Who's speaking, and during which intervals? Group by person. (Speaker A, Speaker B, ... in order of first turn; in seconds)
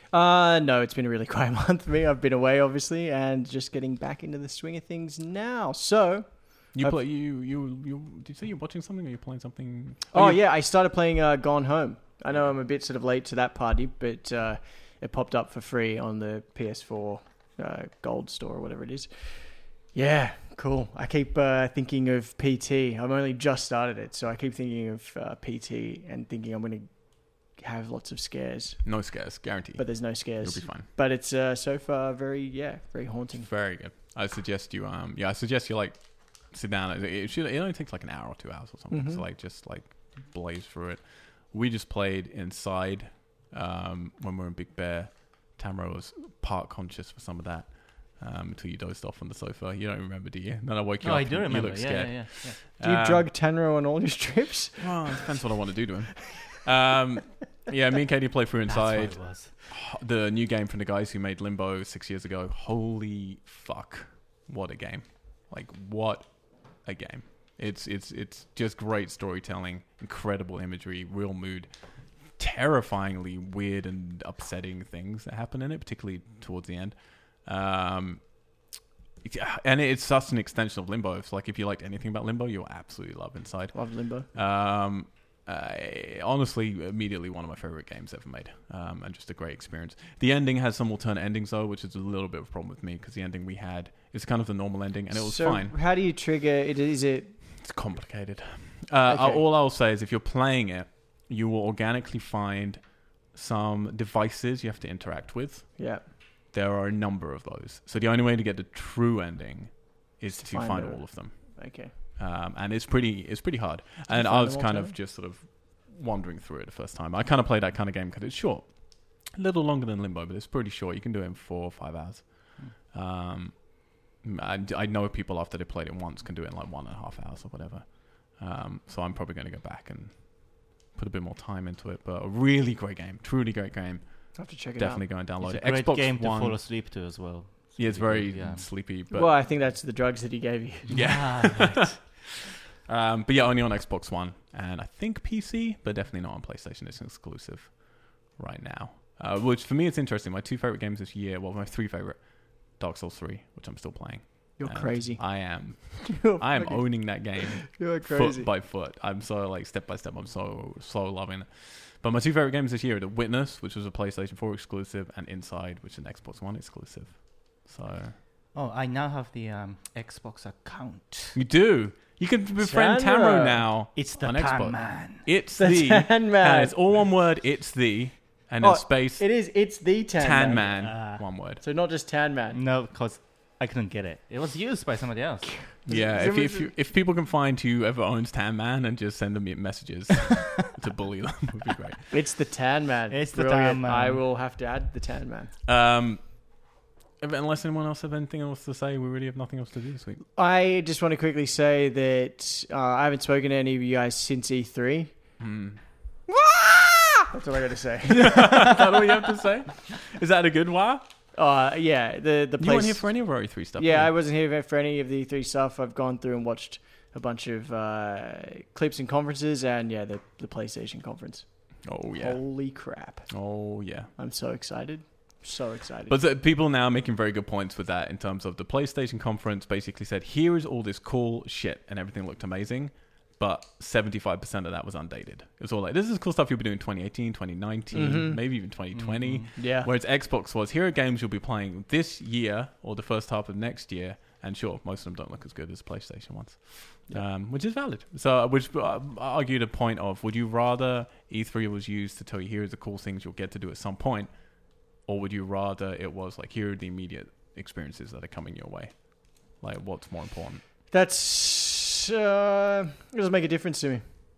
Speaker A: 0.1-7.0, 10.1-28.9, 29.8-33.5, 38.9-39.2, 52.8-55.3, 83.7-84.3, 95.1-97.4, 99.1-99.4, 105.8-106.0, 110.3-111.9, 114.1-115.0, 134.3-135.0, 139.1-141.1, 154.6-158.5, 172.6-173.7, 175.6-176.7, 178.6-182.6, 185.8-186.7, 192.1-195.5, 200.3-205.1, 207.3-208.9, 211.3-221.5, 222.2-223.6, 224.2-226.1, 237.9-238.4, 239.6-239.9, 260.9-264.0
Speaker B: 6.7-10.4, 28.8-30.9, 33.4-53.3, 54.8-71.7, 72.4-78.5, 79.2-95.7, 97.6-111.3, 112.1-136.8, 137.8-139.3, 140.9-142.2, 142.9-168.2, 171.3-179.5, 180.2-181.6, 185.8-192.1, 195.7-196.6, 197.2-200.2, 205.4-205.8, 206.5-207.2, 208.1-211.0, 212.6-214.1, 221.8-222.7, 223.3-224.1, 226.1-254.3, 254.9-260.6
Speaker C: 51.0-52.6, 58.6-59.5, 135.4-138.7, 140.9-141.9, 168.5-171.4, 173.9-175.2, 180.7-181.2, 182.5-185.7, 193.1-194.2, 238.9-239.5